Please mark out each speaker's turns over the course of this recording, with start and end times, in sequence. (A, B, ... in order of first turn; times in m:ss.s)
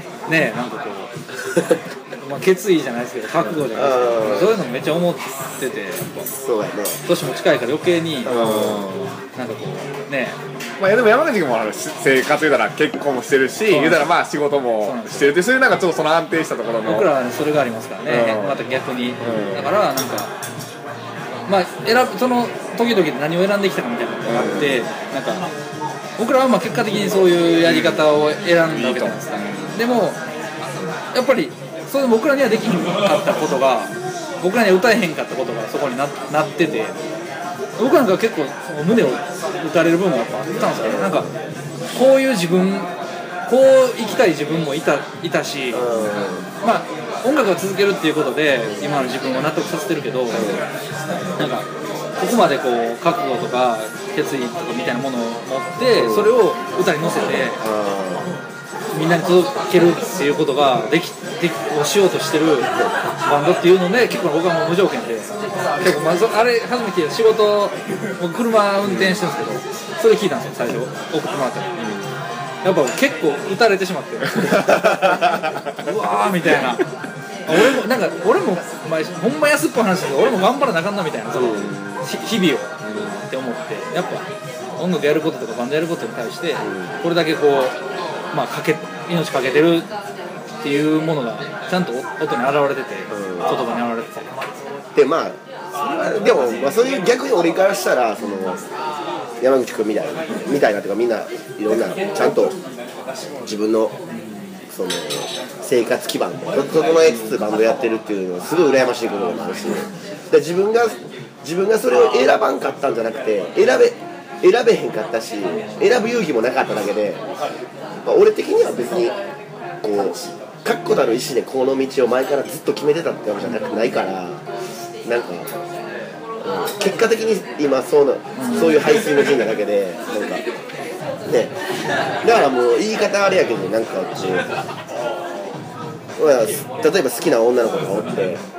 0:00.3-0:01.1 A
0:01.5-0:01.8 B
0:02.2-0:06.3 A
0:03.7-0:04.6 B
0:06.4-0:07.0 B
0:07.0-0:08.4 A
0:08.2-0:08.8 B
0:08.3-0:09.1 C
0:09.4-0:10.4 A
0:10.8-0:17.1 C
0:13.7-0:14.1 A
0:14.8-0:15.3 A
0:16.8-0:20.3 A
0:18.1-0:18.6 C
0:19.2-0:19.7 C
0:21.5-0:25.4 A
0:24.2-0:24.8 C
0:24.4-0:24.7 B
0:26.2-0:30.2 A
0:27.6-0:28.1 C
0:28.7-0:29.8 C
0:31.1-0:37.0 A
0:37.8-0:41.3 A
0:40.8-0:41.3 B
0:41.9-0:42.9 A
0:43.5-0:45.9 A
0:45.7-0:46.5 B
0:46.6-0:50.5 A
0:50.3-0:50.6 B
0:51.4-0:51.6 A
0:52.2-0:57.6 A
0:56.0-0:56.3 B
0:57.3-0:58.3 B
0:58.9-1:02.7 A
1:03.2-1:11.7 A
1:08.8-1:09.2 C
1:11.8-1:12.1 C
1:12.6-1:15.2 A
1:14.4-1:15.3 C
1:15.8-1:16.8 A
1:17.5-1:22.7 A
1:21.3-1:22.0 B
1:22.8-1:23.2 C
1:23.3-1:24.2 A
1:24.8-1:27.8 A
1:26.6-1:27.0 B
1:28.3-1:29.9 A
1:30.6-1:34.3 A
1:33.1-1:33.5 B
1:34.9-1:38.6 B
1:39.4-1:42.5 B
1:42.0-1:42.5 A
1:43.4-1:44.0 B
1:44.7-1:57.2 B
1:58.0-1:59.2 B
1:59.8-2:04.4 B
2:03.4-2:03.8 A
2:05.0-2:05.5 B
2:06.4-2:10.4 B
2:08.4-2:08.8 A
2:11.2-2:11.5 B
2:12.2-2:14.5 B
2:16.2-2:18.4 B